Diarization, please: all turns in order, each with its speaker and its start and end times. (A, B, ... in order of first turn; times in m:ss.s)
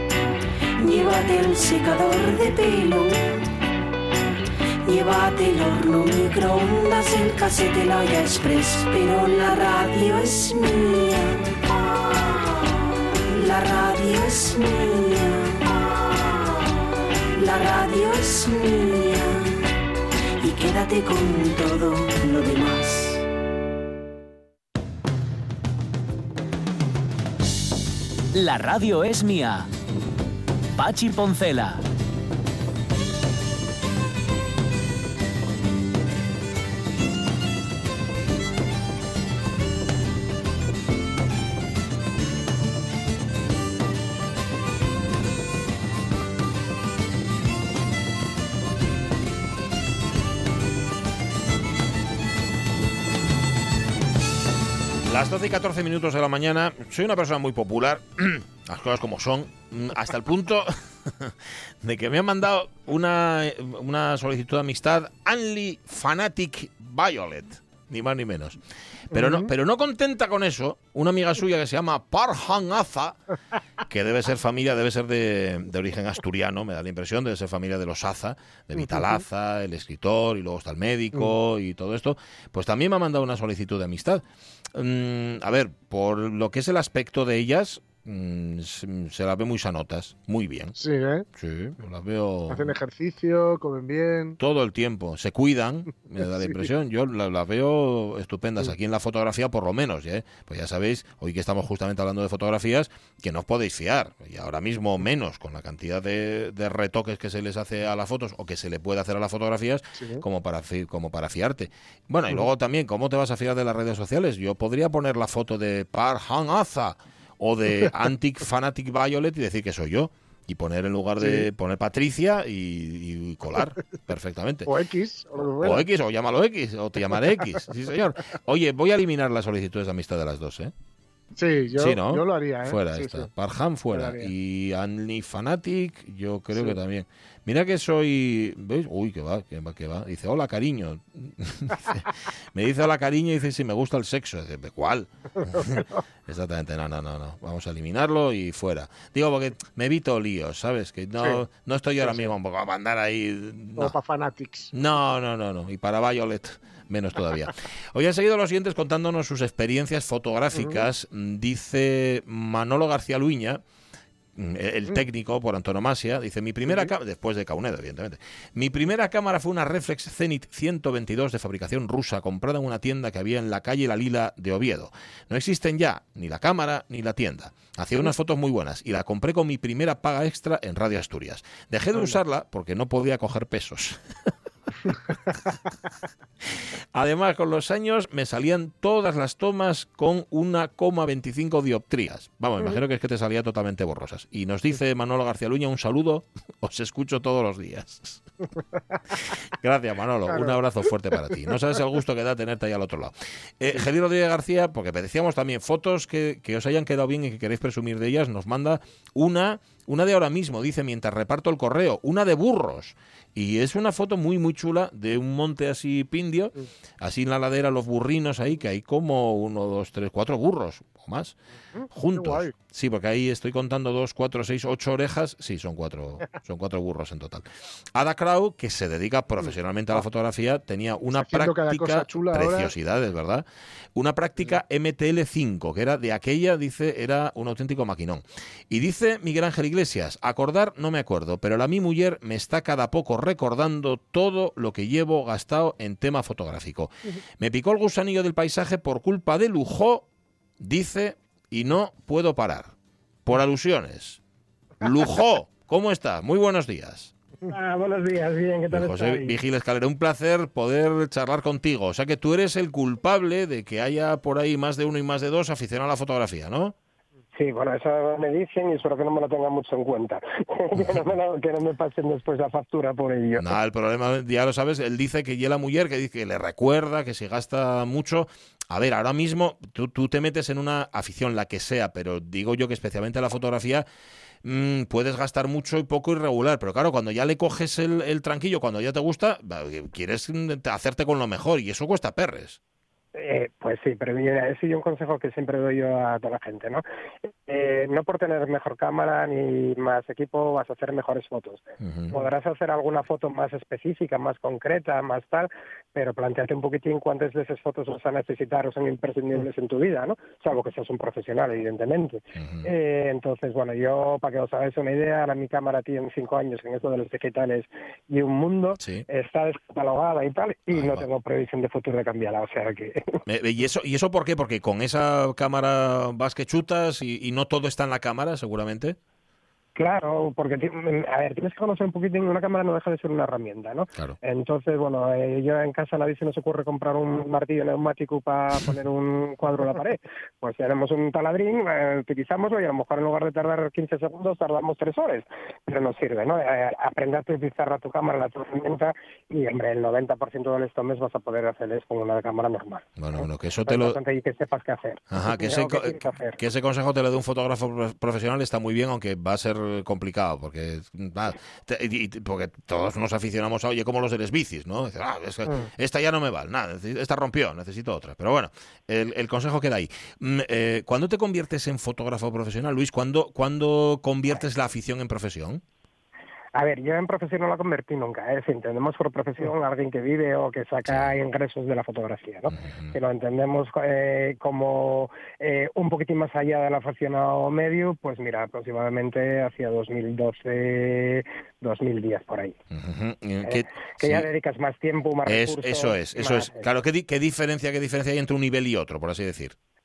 0:00.8-0:03.5 A
0:04.8-0:19.6 A
0:20.4-0:23.2 A
0:28.3-0:29.7 B
0:30.8-0:31.8 B
0:55.1-1:08.6 C
1:09.1-1:09.5 D
1:09.1-1:13.2 C
1:13.9-1:24.2 C
1:18.8-1:19.2 D
1:24.7-1:30.8 C
1:30.8-1:31.2 D
1:31.4-1:32.7 C
1:32.5-1:34.4 D
1:34.4-2:04.7 C
1:36.2-1:36.7 D
1:50.0-1:50.2 D
2:01.2-2:01.5 D
2:04.6-2:05.9 D
2:05.4-2:10.7 C
2:11.3-2:13.3 D
2:11.8-2:34.0 C
2:13.9-2:14.3 D
2:25.6-2:25.9 D
2:32.0-2:32.3 D
2:33.8-2:34.7 D
2:34.7-2:43.6 C
2:40.5-2:40.8 D
2:44.4-3:04.0 C
3:06.9-3:18.2 C
3:19.2-3:41.4 C
3:20.3-3:20.5 D
3:41.7-3:42.5 D
3:41.9-3:53.4 C
3:51.1-3:52.7 D
3:54.0-4:10.1 C
4:10.6-4:12.7 C
4:13.3-4:14.2 C
4:14.8-4:17.1 C
4:17.5-4:19.4 E
4:18.7-4:26.8 C
4:27.4-4:33.5 E
4:30.8-4:31.0 C
4:33.4-4:43.8 C
4:44.4-4:52.6 C
4:53.1-5:23.2 E
5:01.8-5:02.1 C
5:12.4-5:12.6 C
5:18.8-5:19.0 C
5:20.7-5:21.0 C
5:23.2-5:29.0 C
5:29.8-5:56.4 E
5:53.0-5:54.0 C
5:55.1-6:15.6 C
6:16.5-6:32.6 E
6:22.6-6:22.9 C
6:32.7-6:34.2 C
6:33.4-6:36.7 E
6:35.2-6:39.5 C